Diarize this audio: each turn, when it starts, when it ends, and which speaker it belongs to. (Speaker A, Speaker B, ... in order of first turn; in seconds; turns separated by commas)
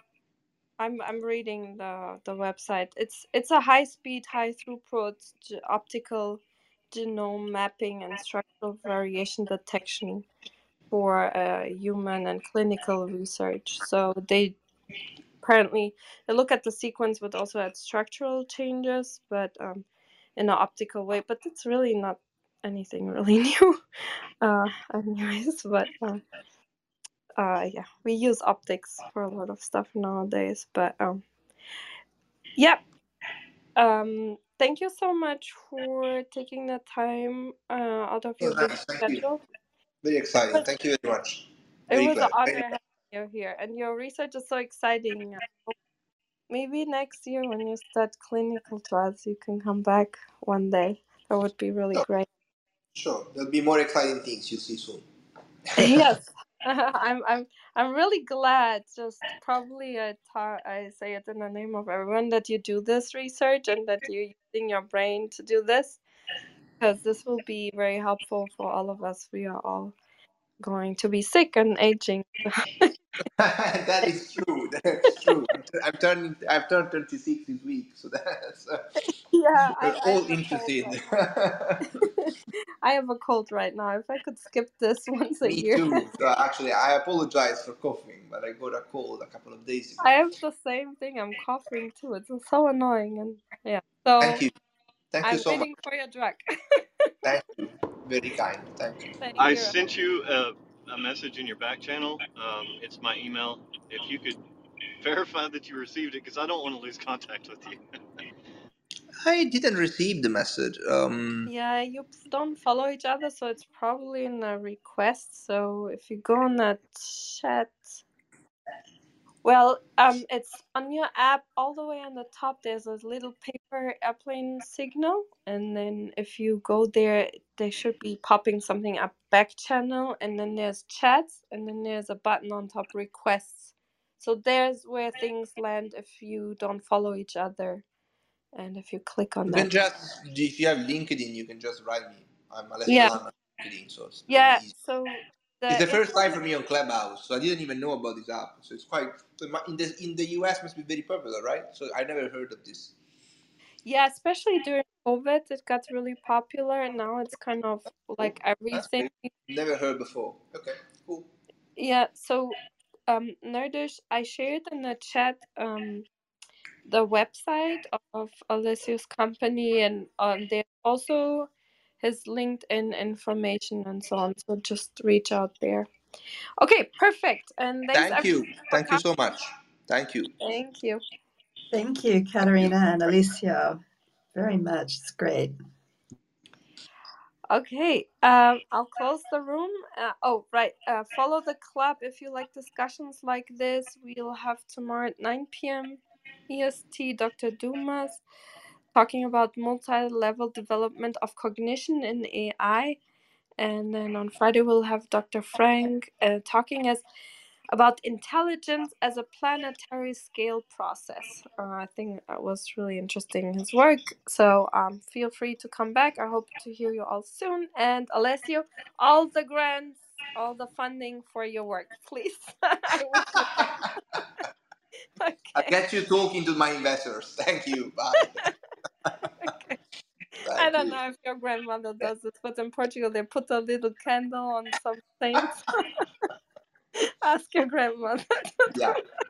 Speaker A: 0.8-10.3, Speaker A: 10.9-14.6, Speaker A: 15.4-23.8, Speaker A: 24.4-26.2, Speaker A: 27.4-31.2, Speaker A: 32.6-32.8, Speaker A: 33.8-39.4, Speaker B: 38.4-39.2, Speaker B: 40.0-42.7, Speaker A: 41.9-45.7, Speaker A: 46.5-52.3, Speaker B: 52.9-55.0, Speaker B: 55.7-56.0, Speaker A: 55.8-66.0, Speaker A: 66.8-70.0, Speaker A: 70.6-72.9, Speaker B: 73.3-78.8, Speaker A: 79.3-81.1, Speaker B: 79.7-81.9, Speaker A: 81.9-86.0, Speaker B: 85.4-90.0, Speaker A: 90.0-94.4, Speaker B: 94.2-94.5, Speaker B: 95.1-95.7, Speaker A: 95.2-97.1, Speaker B: 97.2-99.1, Speaker A: 99.2-99.8, Speaker C: 99.4-104.4, Speaker C: 105.0-107.8, Speaker B: 109.2-111.5, Speaker A: 111.5-118.0, Speaker A: 119.4-137.8, Speaker A: 138.5-139.7, Speaker B: 139.5-144.7, Speaker A: 142.9-143.2, Speaker A: 144.3-146.3, Speaker B: 145.7-152.9, Speaker A: 153.8-159.3, Speaker B: 158.7-161.3, Speaker A: 161.8-166.1, Speaker A: 166.9-171.5, Speaker A: 172.0-175.9, Speaker A: 176.6-179.0, Speaker B: 177.9-180.3, Speaker A: 180.4-181.0, Speaker D: 181.7-183.8, Speaker B: 182.4-182.7, Speaker D: 184.3-185.6, Speaker A: 187.5-198.2, Speaker A: 198.9-203.0, Speaker A: 203.6-207.0, Speaker A: 207.7-224.2, Speaker B: 223.5-223.8, Speaker A: 225.2-225.7, Speaker B: 225.6-228.5, Speaker A: 228.2-228.5, Speaker A: 229.3-229.8, Speaker B: 230.4-231.0, Speaker A: 230.5-236.0, Speaker A: 237.0-239.0, Speaker B: 238.7-239.0